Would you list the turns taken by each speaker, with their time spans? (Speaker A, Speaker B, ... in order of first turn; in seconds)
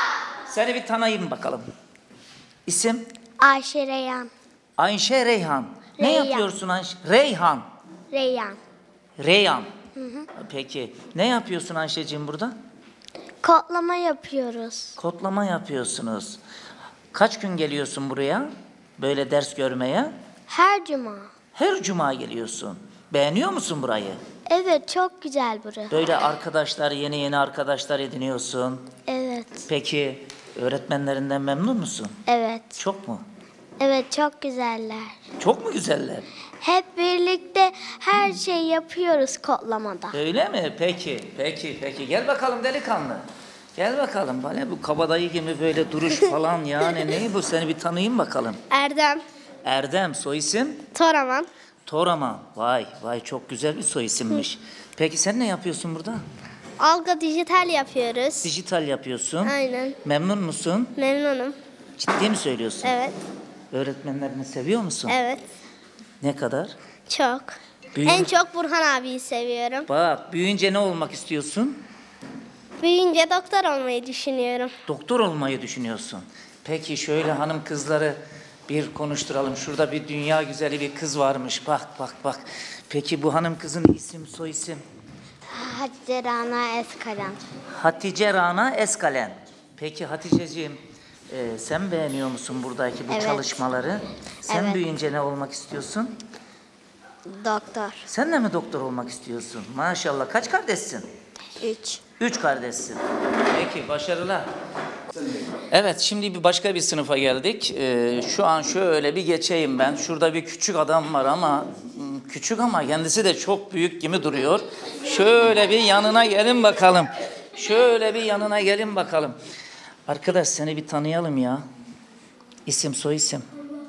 Speaker A: 0.5-1.6, 2.6-3.1, 4.8-7.7, 9.2-9.7, 10.4-12.5, 15.0-16.4, 17.1-20.1, 21.5-24.2, 25.9-28.9, 29.7-32.2, 32.8-33.2, 35.4-36.3, 40.1-43.2, 43.8-48.6, 49.6-50.9, 51.9-56.2, 58.4-60.9, 62.0-62.9, 63.7-65.2, 66.2-66.7, 67.9-68.3, 69.9-71.8, 74.9-84.8, 87.7-96.1, 98.0-101.1, 102.2-104.5, 105.7-119.3, 120.1-121.6, 122.7-123.5
Speaker B: 3.4-4.3, 6.0-6.5, 8.1-8.6, 10.0-10.2, 13.4-14.9, 20.5-21.3, 24.5-25.9, 29.1-29.7, 32.2-32.8, 33.8-35.1, 36.6-40.2, 48.7-49.2, 50.9-51.5, 56.8-58.5, 59.4-60.0, 61.0-61.6, 62.8-63.1, 65.1-65.4, 67.1-69.9, 72.8-74.7, 85.5-87.4, 93.1-93.6, 94.5-94.8, 97.3-98.0, 101.6-102.0